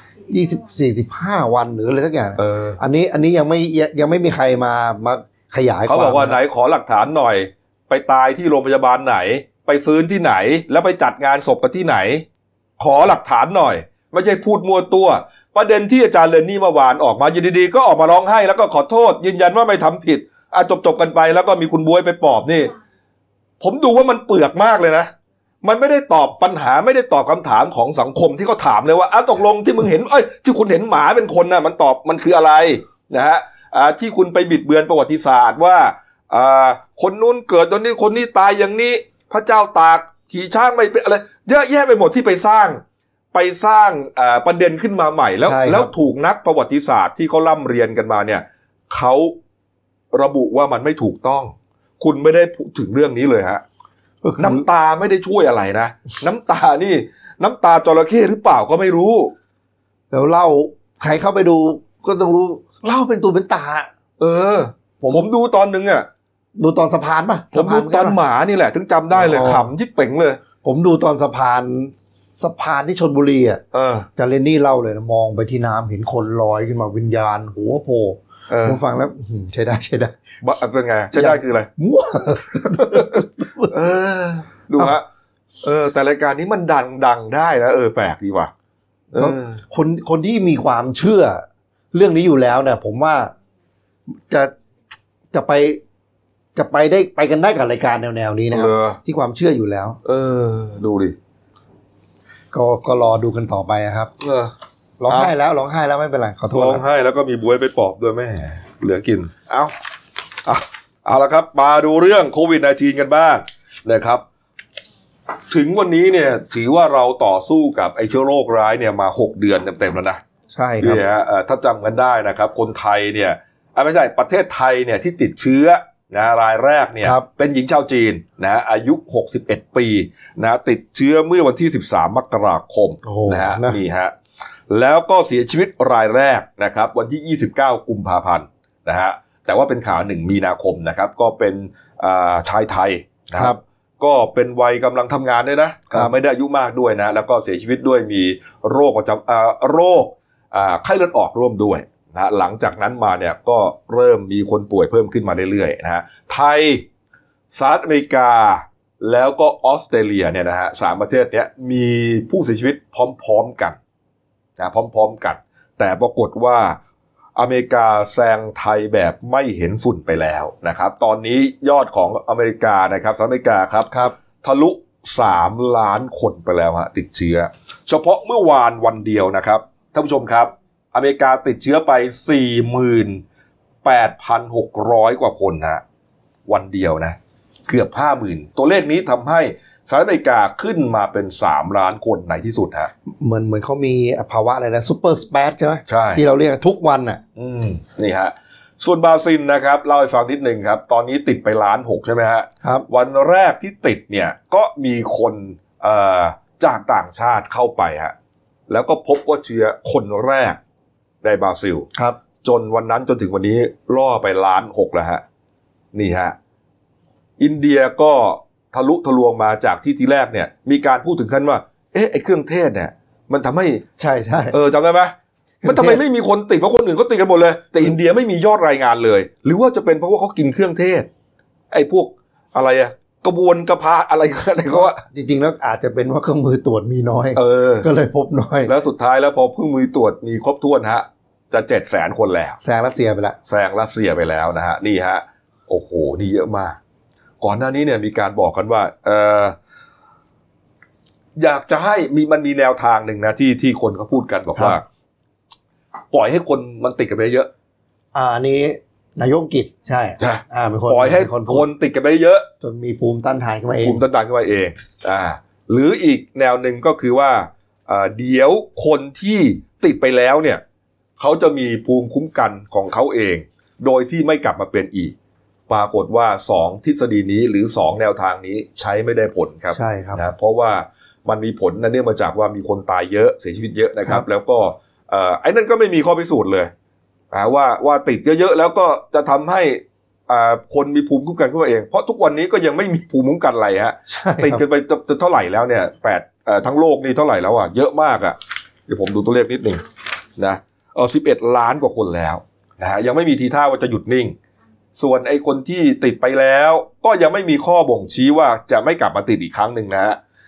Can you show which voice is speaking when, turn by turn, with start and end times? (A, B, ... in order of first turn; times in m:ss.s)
0:00.3-0:06.4 A
0:02.4-0:02.8 B
0:05.9-0:12.2 B
0:12.8-0:22.7 B
0:23.6-0:25.1 B
0:25.6-0:42.8 B
0:43.3-0:49.4 B
0:45.4-0:45.9 A
0:50.1-0:53.6 B
0:54.2-0:54.6 A
0:54.4-0:59.3 B
1:00.1-1:03.9 A
1:04.2-1:06.1 B
1:06.6-1:08.2 A
1:07.5-1:10.4 B
1:09.1-1:09.7 A
1:10.6-1:13.6 A
1:13.7-1:14.1 B
1:14.2-1:20.2 A
1:18.5-1:18.8 B
1:20.4-1:21.7 B
1:21.1-1:23.7 A
1:22.7-1:25.0 B
1:25.6-1:28.5 B
1:29.1-1:29.6 B
1:29.1-1:33.3 A
1:34.1-1:34.5 A
1:35.3-1:35.8 A
1:36.5-1:40.0 A
1:38.5-1:39.0 B
1:40.0-1:41.2 B
1:42.5-1:44.1 A
1:44.2-1:44.5 B
1:45.0-1:46.8 A
1:46.5-1:49.7 B
1:50.4-1:54.2 B
1:55.5-2:00.2 B
2:00.5-2:01.0 A
2:00.8-2:14.1 B
2:13.0-2:13.8 A
2:14.7-2:36.8 B
2:23.3-2:23.6 A
2:37.5-2:43.8 B
2:44.6-2:46.8 B
2:47.4-2:53.9 B
2:53.9-2:54.1 A
2:54.4-3:03.2 B
3:03.8-3:05.8 B
3:06.5-3:07.2 B
3:07.7-3:12.9 B
3:13.1-3:17.2 A
3:15.9-3:16.2 B
3:17.4-3:28.1 B
3:22.6-3:22.9 A
3:28.7-3:30.6 B
3:31.2-3:31.9 B
3:32.4-3:35.2 B
3:35.9-3:36.3 B
3:37.4-3:43.8 B
3:44.0-3:44.6 A
3:44.5-3:51.1 B
3:45.6-3:46.0 A
3:51.7-3:55.0 B
3:54.7-3:58.7 A
3:57.3-3:57.9 B
3:58.6-4:02.6 B
4:02.6-4:03.4 A
4:03.5-4:06.8 B
4:07.4-4:09.6 B
4:11.4-4:14.8 B
4:16.1-4:17.5 B
4:18.1-4:21.7 A
4:20.2-4:22.4 B
4:22.6-4:24.0 A
4:23.8-4:30.6 B
4:31.2-4:35.1 B
4:35.7-4:46.7 B
4:39.7-4:40.2 A
4:47.3-4:59.8 B
4:54.1-4:54.6 A
5:00.4-5:04.4 B
5:05.0-5:10.2 B